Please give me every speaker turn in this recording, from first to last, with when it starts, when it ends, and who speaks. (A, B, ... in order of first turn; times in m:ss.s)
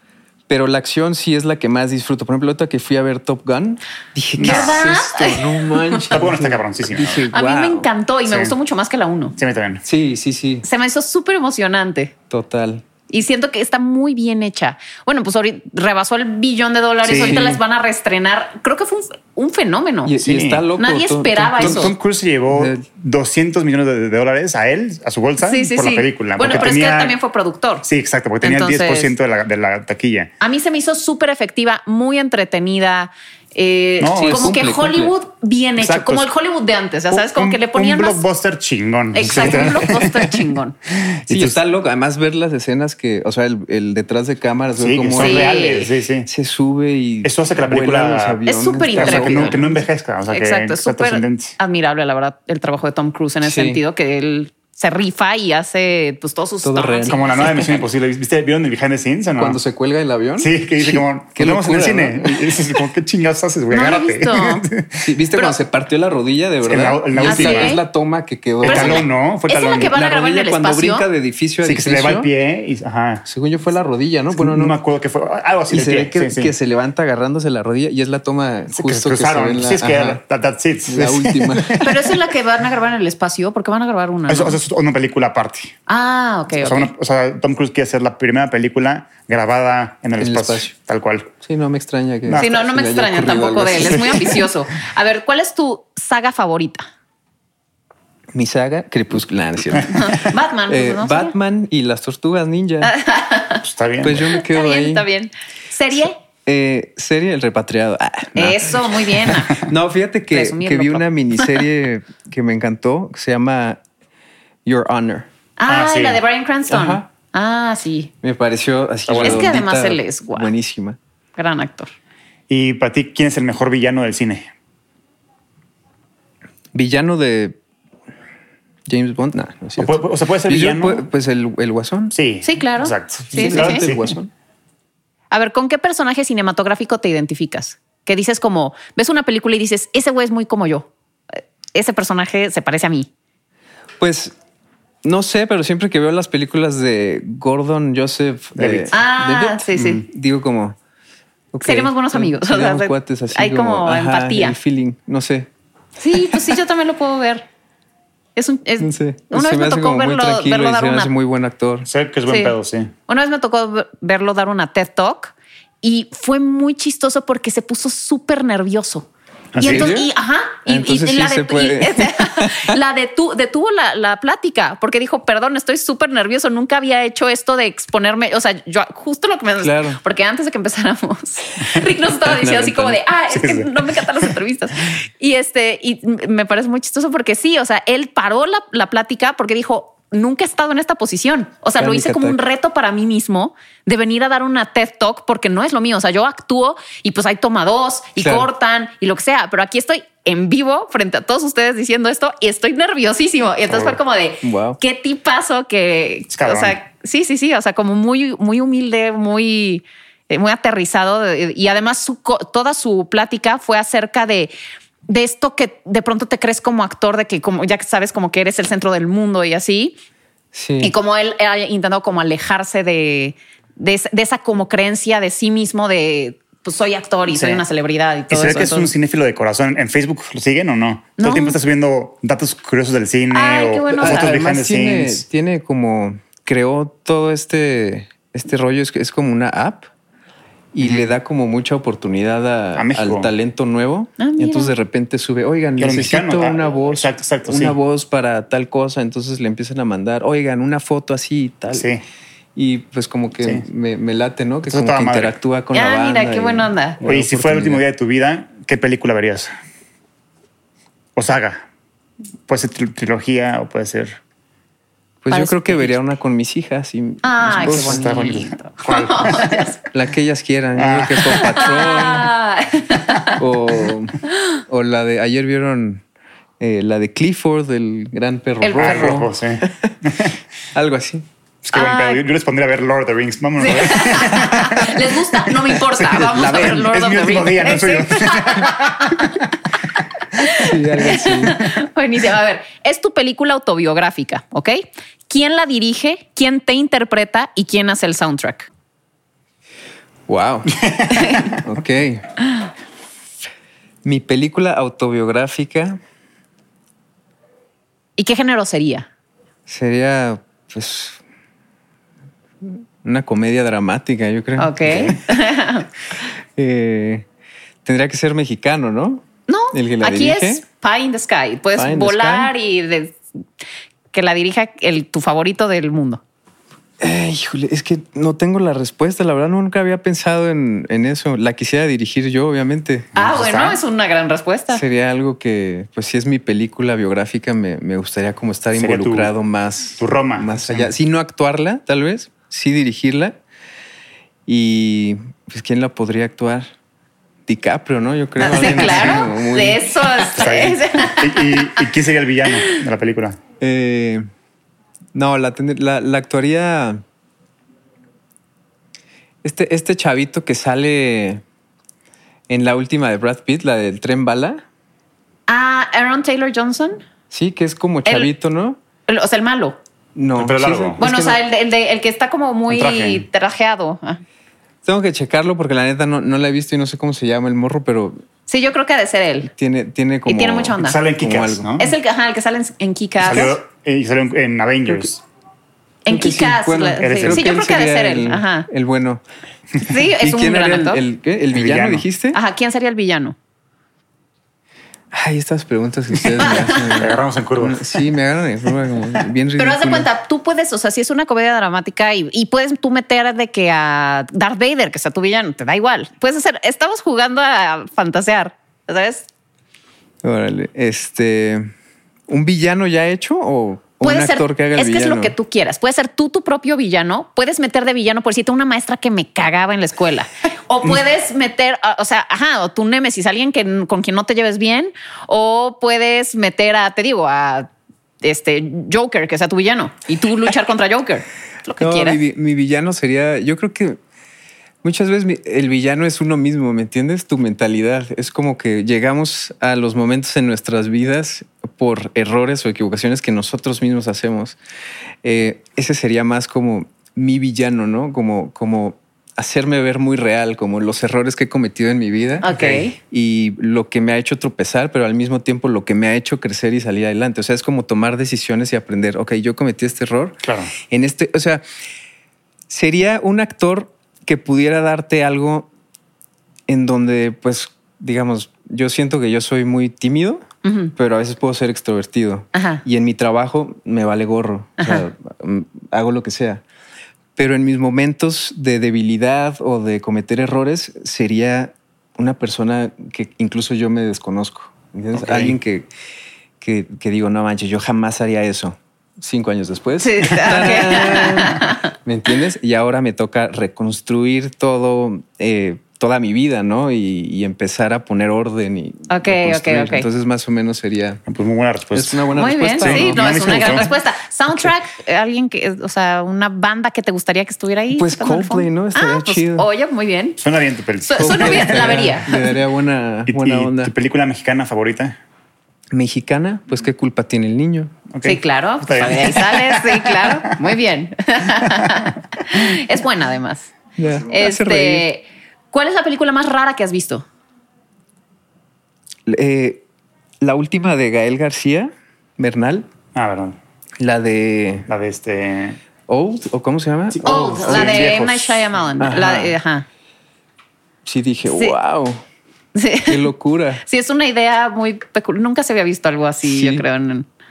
0:00.5-0:07.9 A
0:04.4-0:04.9 B
0:04.4-0:06.0 C
0:06.1-0:07.3 B
0:07.3-0:09.4 C
0:08.3-0:08.6 B
0:09.4-0:09.8 B
0:09.8-0:10.7 A
0:10.6-0:12.1 C
0:12.3-0:12.8 A
0:13.1-0:20.2 C
0:17.0-0:17.4 B
0:17.1-0:17.6 A
0:20.1-0:22.0 A
0:20.2-0:20.6 B
0:20.8-0:21.9 C
0:21.6-0:27.2 B
0:22.5-0:22.8 A
0:25.4-0:27.9 C
0:27.8-0:30.3 B
0:28.4-0:29.1 C
0:30.4-0:38.2 C
0:34.0-0:34.6 B
0:34.2-0:35.1 A
0:35.8-0:36.3 B
0:37.1-0:41.6 B
0:39.1-0:40.8 C
0:39.3-0:39.8 A
0:41.3-0:45.7 A
0:44.8-0:46.3 B
0:45.2-0:45.9 C
0:46.3-0:49.7 A
0:47.2-0:51.6 B
0:48.5-0:57.8 C
0:53.4-0:53.8 A
0:56.6-0:57.2 A
0:57.1-0:59.6 B
0:59.4-1:02.8 A
1:00.4-1:05.1 B
1:03.7-1:04.7 C
1:05.0-1:09.1 A
1:06.6-1:07.8 B
1:07.2-1:07.8 C
1:08.6-1:09.9 B
1:08.6-1:11.1 C
1:09.9-1:12.3 A
1:11.6-1:13.2 B
1:13.2-1:14.8 A
1:14.4-1:16.5 B
1:15.7-1:20.2 A
1:18.7-1:22.1 B
1:20.9-1:22.0 A
1:21.8-1:24.6 C
1:24.3-1:25.8 B
1:25.9-1:26.9 C
1:26.6-1:31.3 B
1:30.2-1:30.7 A
1:31.4-1:34.4 A
1:32.3-1:32.5 B
1:32.4-1:36.9 C
1:38.3-1:42.9 A
1:39.9-1:41.4 C
1:42.8-1:43.6 C
1:43.6-1:44.3 B
1:44.0-1:45.1 A
1:44.3-1:46.2 C
1:46.4-1:53.8 A
1:48.4-1:49.7 C
1:50.3-1:51.6 C
1:54.6-1:55.3 A
1:55.6-1:58.1 C
1:55.7-1:56.2 B
1:56.7-1:57.1 A
1:58.2-2:01.0 A
1:59.1-1:59.5 B
1:59.2-2:00.5 C
2:01.4-2:01.9 C
2:02.5-2:04.5 B
2:06.7-2:07.6 A
2:08.9-2:12.1 A
2:09.8-2:11.0 B
2:12.1-2:14.2 B
2:12.4-2:13.9 C
2:13.3-2:14.3 A
2:15.3-2:23.1 C
2:24.0-2:24.4 A
2:25.0-2:30.8 A
2:28.6-2:29.0 B
2:28.9-2:30.0 C
2:31.5-2:35.5 A
2:31.6-2:34.6 C
2:36.0-2:37.5 C
2:38.4-2:41.1 C
2:38.8-2:41.9 A
2:41.9-2:42.9 B
2:42.3-2:42.5 C
2:43.1-3:34.5 C
2:49.5-2:50.0 B
2:49.6-2:50.1 A
2:50.7-2:52.8 A
2:59.6-3:00.0 A
3:02.2-3:03.0 A
3:03.3-3:04.3 B
3:11.8-3:12.4 A
3:18.2-3:18.5 A
3:23.7-3:24.0 B
3:24.4-3:24.8 A
3:26.3-3:26.8 B
3:35.1-3:40.0 C
3:40.5-3:40.9 A
3:40.8-3:48.9 C
3:47.3-3:47.6 B
3:48.3-3:55.2 B
3:51.2-3:51.6 C
3:53.3-3:54.4 C
3:54.0-3:59.9 A
4:00.7-4:11.9 A
4:00.8-4:01.1 B
4:02.8-4:03.3 B
4:04.2-4:04.7 C
4:05.8-4:07.8 B
4:11.7-4:12.0 B
4:12.6-4:17.8 A
4:14.7-4:15.4 B
4:15.7-4:17.0 C
4:17.0-4:19.5 B
4:21.2-4:21.6 B
4:22.5-4:24.2 B
4:25.2-4:28.2 A
4:25.3-4:26.0 C
4:27.2-4:29.8 C
4:27.6-4:29.6 B
4:29.9-4:32.3 A
4:30.8-4:31.6 B
4:31.4-4:33.4 C
4:33.4-4:36.0 A
4:36.6-4:40.0 A
4:38.6-4:39.2 C
4:38.7-4:40.4 B
4:40.7-4:41.3 A
4:41.6-4:49.4 B
4:41.7-4:42.2 C
4:43.6-4:49.4 C
4:46.2-4:46.7 A
4:50.3-4:58.7 C
4:50.6-4:51.6 A
5:00.3-5:02.3 A
5:01.1-5:01.5 C
5:04.0-5:06.0 A
5:08.2-5:09.1 C
5:09.7-5:11.2 A
5:12.6-5:15.2 A
5:14.6-5:15.9 C
5:16.6-5:17.3 A
5:17.8-5:20.6 A
5:19.5-5:23.2 C
5:21.8-5:22.5 A
5:24.1-5:26.2 C
5:27.0-5:33.1 A
5:33.2-5:33.8 B
5:33.2-5:34.8 C
5:34.7-5:43.4 A
5:38.7-5:39.3 B
5:40.0-5:40.9 B
5:44.5-5:46.7 A
5:47.5-5:49.9 A
5:48.4-5:51.8 C
5:50.3-5:53.4 B
5:53.6-5:54.2 A
5:55.1-5:57.0 A
5:59.4-6:01.4 A
6:02.5-6:04.6 A
6:05.5-6:07.0 C
6:07.3-6:08.8 A
6:08.1-6:08.3 C
6:09.1-6:09.8 C
6:10.2-6:11.4 A
6:10.4-6:11.0 B
6:11.0-6:14.2 C
6:12.7-6:13.2 B
6:14.8-6:18.2 A
6:18.5-6:19.5 C
6:19.5-6:21.7 A
6:20.3-6:21.0 C
6:20.8-6:21.9 B
6:21.8-6:23.6 C
6:23.2-6:25.2 B
6:26.0-6:28.7 C
6:26.1-6:29.2 A
6:27.0-6:27.5 B
6:29.8-6:31.0 C
6:30.2-6:32.4 A
6:31.5-6:32.0 B
6:32.3-6:33.4 C
6:35.1-6:40.1 A
6:36.5-6:36.8 C
6:36.8-6:37.9 B
6:39.6-6:49.3 C
6:50.2-6:51.7 A
6:52.3-6:55.4 A
6:54.0-7:07.7 C
7:08.2-7:12.2 C
7:11.8-7:14.0 A
7:14.8-7:24.6 A
7:25.2-7:41.6 A
7:32.4-7:33.0 C
7:32.5-7:32.8 B
7:40.4-7:40.7 B
7:42.7-7:45.7 A
7:46.7-7:56.6 A
7:50.6-7:50.9 C
7:52.5-7:52.8 C
7:54.8-7:55.0 C
7:57.4-8:05.9 A
8:05.2-8:05.6 B
8:06.6-8:21.2 A
8:10.0-8:11.9 C
8:19.1-8:20.1 C
8:21.3-8:22.3 B
8:21.9-8:23.9 A
8:22.4-8:30.4 C
8:22.8-8:23.9 B
8:27.9-8:29.7 A
8:30.4-8:32.2 B
8:31.0-8:32.4 C
8:31.2-8:33.9 A
8:33.3-8:35.2 B
8:35.9-8:37.9 A
8:38.1-8:40.5 B
8:38.2-8:43.7 C
8:44.0-8:45.1 A
8:44.3-8:47.3 C
8:49.3-8:49.8 A
8:50.4-8:52.9 A
8:53.2-8:53.6 B
8:54.0-8:54.9 A
8:54.9-8:55.8 B
8:56.1-8:58.2 A
8:57.1-8:58.7 B
8:57.2-8:59.9 C
8:59.0-8:59.6 A
9:01.0-9:02.2 A
9:01.5-9:01.8 C
9:02.8-9:03.2 C
9:03.1-9:03.8 A
9:03.8-9:07.3 C
9:06.4-9:06.8 A